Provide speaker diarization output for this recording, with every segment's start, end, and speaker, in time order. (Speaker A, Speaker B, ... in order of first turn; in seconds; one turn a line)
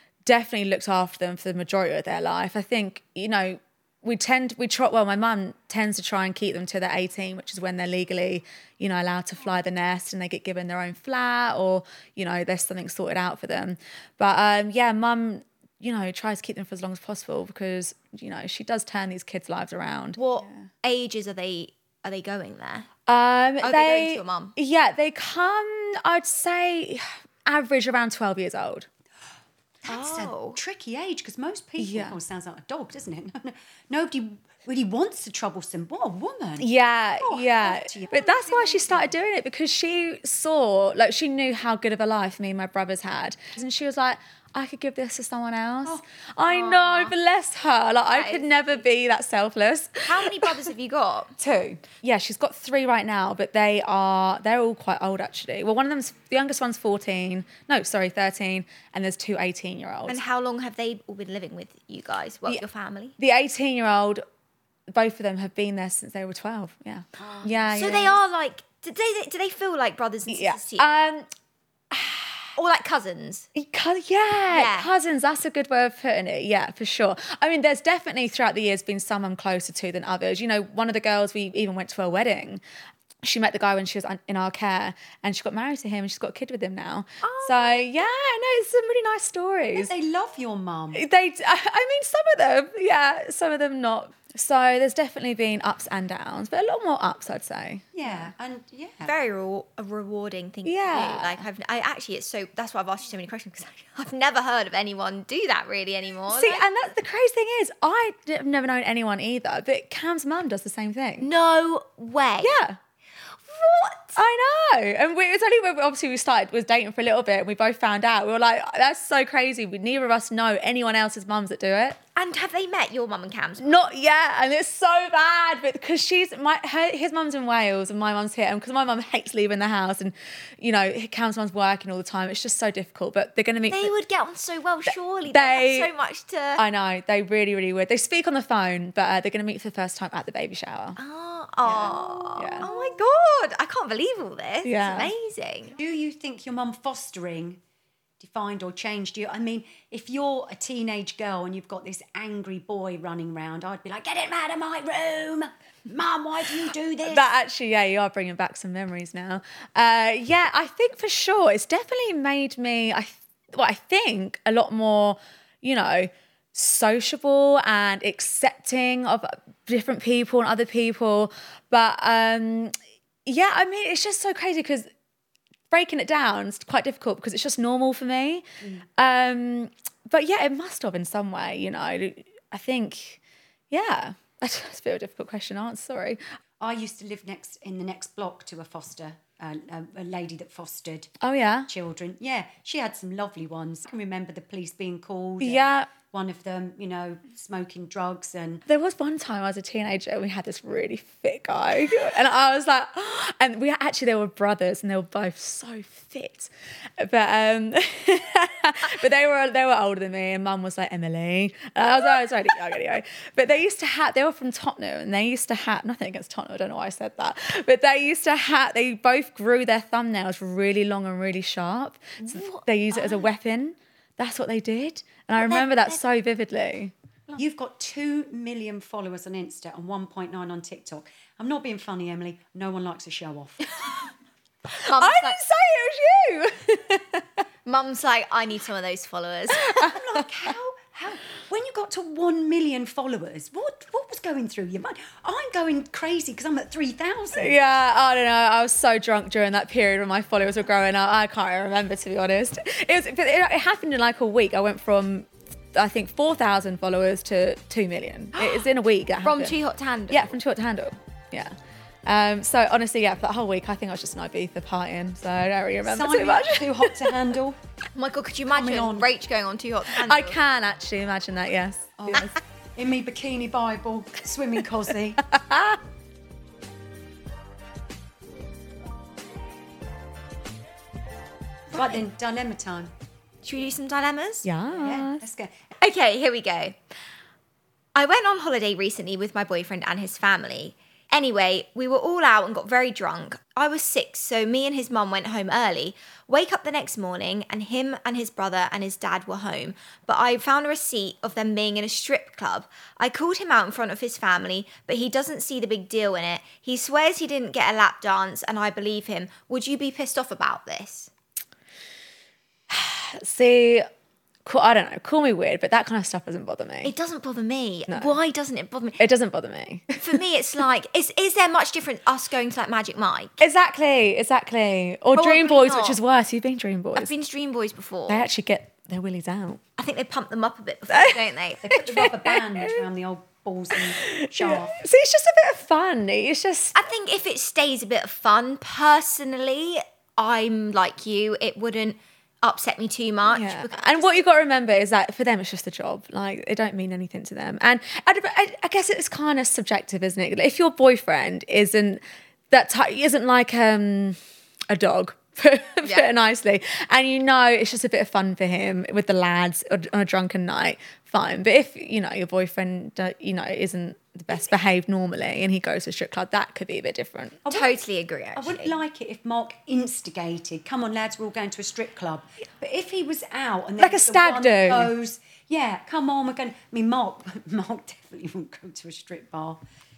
Speaker A: 0.2-20.6
Speaker B: 20.2-22.9
Speaker A: 23.1-28.9
Speaker B: 23.6-24.5
Speaker C: 29.8-36.7
Speaker B: 29.9-30.6
Speaker A: 31.8-32.2
Speaker A: 36.6-50.5
Speaker C: 37.2-39.1
Speaker B: 46.5-47.1
Speaker B: 48.1-48.6
Speaker B: 50.0-51.3
Speaker A: 51.4-60.2
Speaker B: 60.1-63.1
Speaker A: 63.2-64.2
Speaker A: 64.9-68.2
Speaker C: 67.2-67.5
Speaker B: 67.7-71.0
Speaker A: 70.3-71.2
Speaker A: 71.9-72.5
Speaker B: 72.5-73.5
Speaker A: 73.5-82.6
Speaker B: 74.5-74.9
Speaker A: 83.2-89.9
Speaker B: 87.2-87.8
Speaker C: 89.7-91.0
Speaker A: 90.9-98.3
Speaker C: 97.9-99.1
Speaker B: 99.0-106.6
Speaker A: 100.6-101.5
Speaker A: 106.3-111.3
Speaker B: 111.2-112.6
Speaker A: 112.4-112.8
Speaker B: 113.4-114.2
Speaker A: 114.1-122.0
Speaker B: 122.1-123.9
Speaker A: 123.6-133.9
Speaker B: 133.7-136.6
Speaker A: 134.8-135.9
Speaker A: 136.6-141.0
Speaker B: 141.0-145.8
Speaker C: 141.6-142.9
Speaker A: 142.3-142.7
Speaker A: 144.6-145.1
Speaker C: 145.8-147.6
Speaker C: 148.2-157.3
Speaker A: 157.0-172.7
Speaker A: 173.2-174.9
Speaker A: 175.7-178.4
Speaker A: 179.0-186.2
Speaker C: 186.6-191.1
Speaker A: 191.2-191.7
Speaker C: 191.7-198.6
Speaker A: 195.4-195.9
Speaker A: 198.7-226.9
Speaker B: 222.2-223.2
Speaker B: 225.3-226.0
Speaker C: 227.4-233.8
Speaker B: 234.7-235.4
Speaker A: 234.8-237.2
Speaker B: 237.6-240.0
Speaker C: 239.7-247.6
Speaker A: 247.4-259.5
Speaker B: 259.2-260.3
Speaker A: 260.1-267.1
Speaker C: 265.8-267.6
Speaker B: 267.9-270.4
Speaker C: 268.5-269.1
Speaker A: 270.0-272.4
Speaker C: 272.0-275.2
Speaker A: 275.3-275.8
Speaker C: 281.7-282.9
Speaker B: 281.7-282.0
Speaker B: 283.4-284.5
Speaker A: 284.4-285.2
Speaker C: 284.7-285.5
Speaker B: 285.8-286.8
Speaker B: 287.9-311.1
Speaker A: 312.7-313.9
Speaker A: 314.4-316.9
Speaker B: 316.8-319.0
Speaker A: 317.9-318.1
Speaker A: 319.0-320.2
Speaker B: 320.0-323.4
Speaker A: 323.4-327.1
Speaker B: 325.1-326.0
Speaker B: 326.9-328.2
Speaker A: 328.1-329.6
Speaker B: 329.8-332.3
Speaker A: 330.9-331.2
Speaker C: 331.6-334.8
Speaker A: 331.7-332.8
Speaker A: 334.0-336.9
Speaker B: 336.7-344.2
Speaker A: 343.2-354.2
Speaker A: 354.7-367.4
Speaker C: 367.4-367.8
Speaker B: 367.5-368.8
Speaker C: 368.4-379.6
Speaker A: 373.8-374.9